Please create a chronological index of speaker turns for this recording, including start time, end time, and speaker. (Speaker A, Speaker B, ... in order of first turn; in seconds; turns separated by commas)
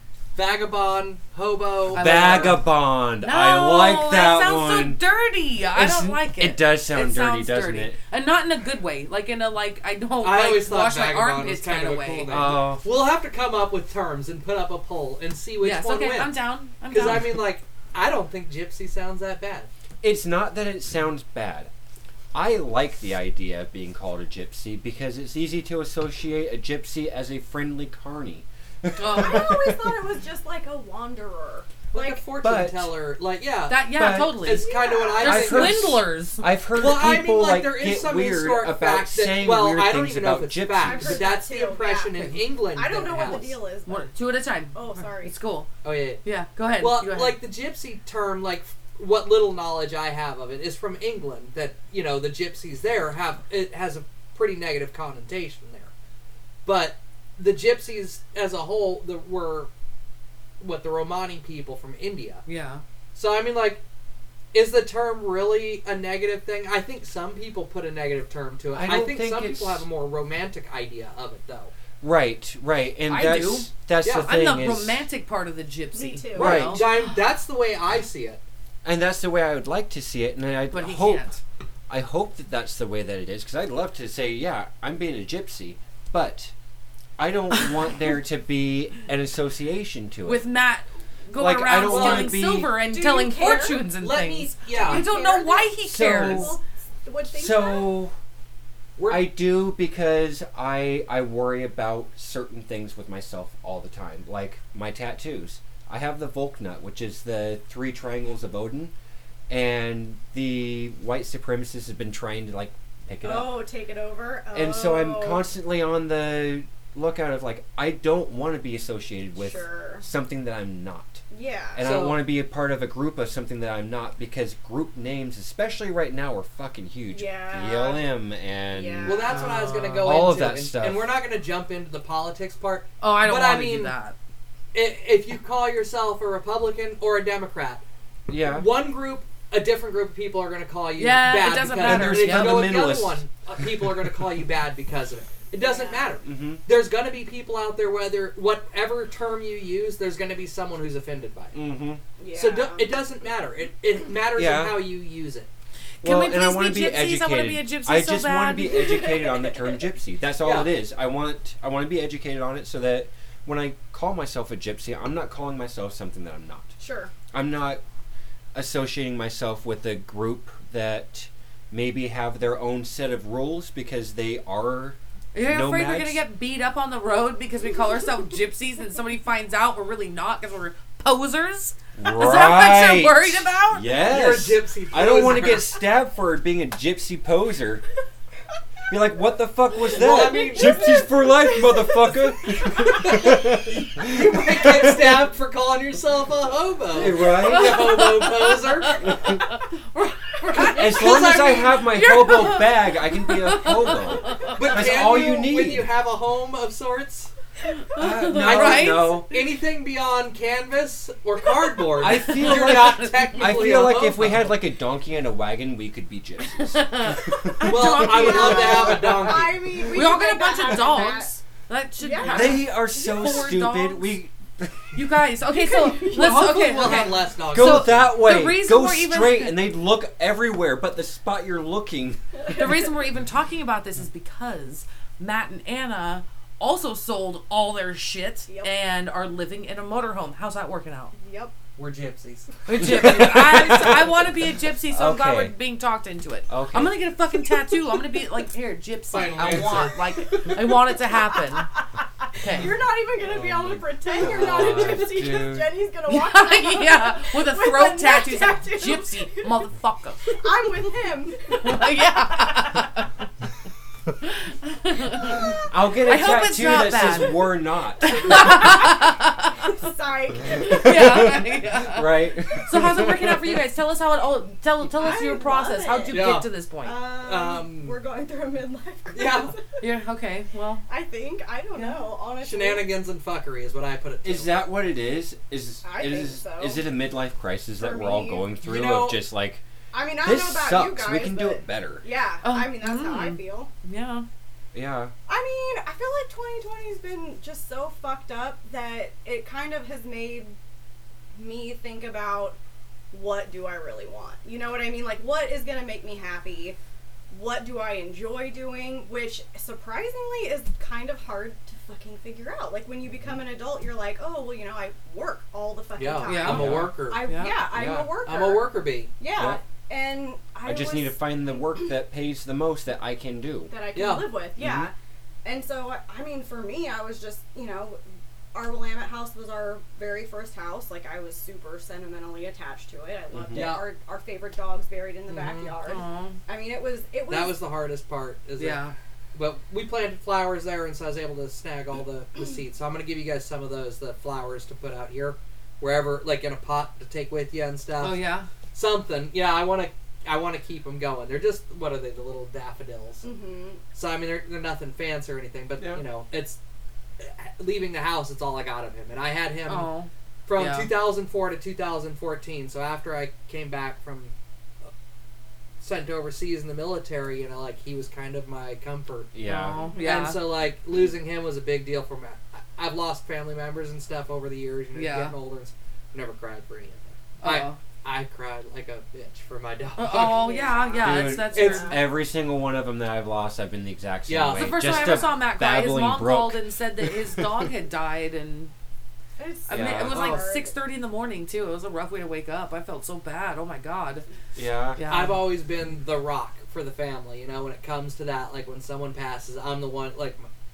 Speaker A: 0.3-2.6, Speaker B: 1.9-5.0, Speaker C: 1.9-2.7, Speaker C: 3.2-12.6, Speaker B: 5.7-8.0, Speaker A: 10.2-16.3, Speaker B: 12.3-12.8, Speaker C: 15.6-17.3, Speaker A: 16.9-19.7, Speaker B: 20.0-21.7, Speaker B: 22.3-30.0, Speaker C: 29.0-29.5, Speaker D: 29.0-32.2, Speaker A: 31.9-33.9, Speaker B: 32.4-32.9, Speaker C: 33.7-34.7, Speaker B: 33.9-34.5, Speaker A: 34.4-35.9, Speaker D: 34.6-35.7, Speaker C: 35.2-36.4, Speaker B: 35.2-41.3, Speaker A: 36.7-43.6, Speaker D: 40.7-44.1, Speaker C: 43.9-45.7, Speaker D: 44.7-45.3, Speaker A: 45.8-46.2, Speaker C: 46.2-47.4, Speaker A: 46.8-55.9, Speaker A: 56.6-59.7, Speaker A: 60.6-62.4, Speaker C: 62.5-62.8, Speaker A: 63.1-63.8, Speaker A: 64.5-71.7, Speaker B: 68.7-69.8, Speaker B: 72.0-75.0, Speaker C: 73.1-73.7, Speaker A: 74.0-74.3, Speaker C: 74.2-76.9, Speaker D: 75.9-76.7, Speaker B: 76.3-76.8, Speaker A: 76.3-78.4, Speaker B: 78.8-81.2, Speaker C: 80.7-81.4, Speaker B: 81.9-86.5, Speaker B: 87.2-90.4, Speaker C: 90.2-96.5, Speaker B: 91.3-92.7, Speaker A: 91.8-92.4, Speaker D: 92.8-93.9, Speaker A: 93.9-95.0, Speaker D: 94.7-98.0, Speaker B: 95.8-96.6, Speaker B: 97.3-98.1, Speaker A: 99.0-99.3, Speaker B: 99.1-108.9, Speaker B: 109.5-113.6, Speaker D: 113.2-115.4, Speaker B: 114.5-121.2, Speaker D: 119.4-120.0, Speaker D: 121.3-121.9, Speaker B: 121.7-131.1, Speaker A: 121.8-122.2, Speaker D: 127.1-128.1, Speaker D: 128.7-129.5, Speaker A: 129.0-133.9, Speaker C: 129.3-130.0, Speaker C: 133.0-134.1, Speaker A: 134.7-137.8, Speaker B: 138.3-138.7, Speaker A: 138.4-151.6, Speaker C: 141.0-142.8, Speaker B: 141.7-143.2, Speaker D: 145.5-146.2, Speaker B: 146.2-146.6, Speaker B: 151.5-152.0, Speaker D: 152.2-152.8, Speaker A: 152.3-155.5, Speaker B: 154.3-154.8, Speaker C: 156.0-158.8, Speaker B: 156.0-166.7, Speaker D: 158.6-159.8, Speaker A: 160.4-160.7, Speaker D: 166.8-167.1, Speaker B: 167.3-167.8, Speaker B: 168.5-176.2, Speaker C: 175.3-183.9, Speaker B: 181.9-187.8, Speaker A: 184.0-185.7, Speaker B: 188.9-195.3, Speaker A: 189.9-190.9, Speaker D: 190.6-192.1, Speaker D: 192.7-192.9, Speaker A: 192.7-199.1, Speaker B: 196.9-198.2, Speaker C: 197.4-204.6, Speaker B: 199.0-199.4, Speaker A: 200.6-201.7, Speaker B: 200.7-205.9, Speaker A: 204.4-207.3, Speaker C: 207.7-209.2, Speaker B: 207.9-209.3, Speaker A: 208.4-214.5, Speaker B: 212.0-218.0, Speaker C: 212.3-213.2, Speaker C: 216.6-219.0, Speaker D: 217.6-221.3, Speaker A: 217.6-219.8, Speaker C: 219.8-224.1, Speaker D: 222.0-222.7, Speaker B: 222.3-225.0, Speaker C: 224.9-229.6, Speaker D: 225.5-227.0, Speaker A: 226.0-228.1, Speaker B: 227.4-232.2, Speaker C: 232.5-241.1, Speaker D: 241.1-241.5, Speaker A: 241.8-242.8, Speaker C: 242.7-251.7, Speaker B: 242.8-244.1, Speaker B: 244.9-245.5, Speaker B: 246.5-247.0, Speaker A: 249.1-250.1, Speaker C: 252.4-252.8, Speaker D: 252.5-259.6, Speaker B: 253.2-255.7, Speaker C: 256.1-260.4, Speaker D: 260.3-262.1, Speaker C: 261.5-263.1, Speaker C: 264.2-267.5, Speaker B: 265.6-268.6, Speaker C: 268.0-269.8, Speaker D: 268.0-271.4, Speaker B: 270.5-273.6, Speaker C: 270.6-277.0, Speaker D: 274.9-279.8, Speaker A: 276.1-276.5, Speaker A: 277.2-278.0, Speaker A: 279.1-279.5, Speaker C: 279.8-280.8, Speaker D: 280.9-282.9, Speaker C: 281.8-282.1, Speaker A: 282.4-284.6, Speaker B: 284.2-289.6, Speaker D: 285.8-286.9, Speaker D: 287.8-288.5, Speaker A: 288.6-289.2, Speaker D: 289.9-293.7, Speaker B: 290.2-292.0, Speaker C: 292.4-294.2, Speaker B: 294.7-295.1, Speaker D: 295.3-300.6, Speaker D: 301.3-302.6, Speaker D: 303.1-306.8, Speaker D: 307.3-321.2, Speaker A: 316.0-317.6, Speaker C: 316.2-317.6, Speaker B: 316.4-316.9, Speaker B: 317.7-318.1, Speaker A: 318.2-319.1, Speaker B: 319.3-319.6, Speaker B: 320.6-323.7, Speaker D: 323.7-324.9, Speaker A: 323.9-324.3, Speaker B: 324.6-324.9, Speaker D: 325.4-328.0, Speaker D: 328.5-337.6, Speaker B: 333.3-333.7, Speaker A: 333.5-333.9, Speaker A: 335.3-335.8, Speaker C: 335.8-336.4, Speaker A: 337.3-348.2, Speaker C: 338.6-338.9, Speaker C: 348.0-348.5, Speaker A: 348.7-353.3, Speaker D: 353.2-353.8, Speaker A: 353.9-356.6, Speaker A: 357.2-359.9, Speaker C: 359.7-360.9, Speaker A: 360.4-364.9, Speaker A: 365.8-369.3, Speaker B: 369.3-369.8, Speaker C: 369.4-370.4, Speaker D: 369.8-370.3, Speaker A: 370.0-380.5, Speaker C: 374.9-375.3, Speaker C: 377.4-377.8, Speaker C: 380.0-382.0, Speaker D: 380.1-382.0, Speaker B: 381.0-387.7, Speaker A: 381.5-381.9, Speaker A: 384.3-385.0, Speaker C: 384.5-388.7, Speaker D: 389.4-390.7, Speaker C: 389.7-394.2, Speaker B: 389.7-390.4, Speaker B: 394.5-395.0, Speaker C: 395.0-395.4, Speaker A: 395.1-400.5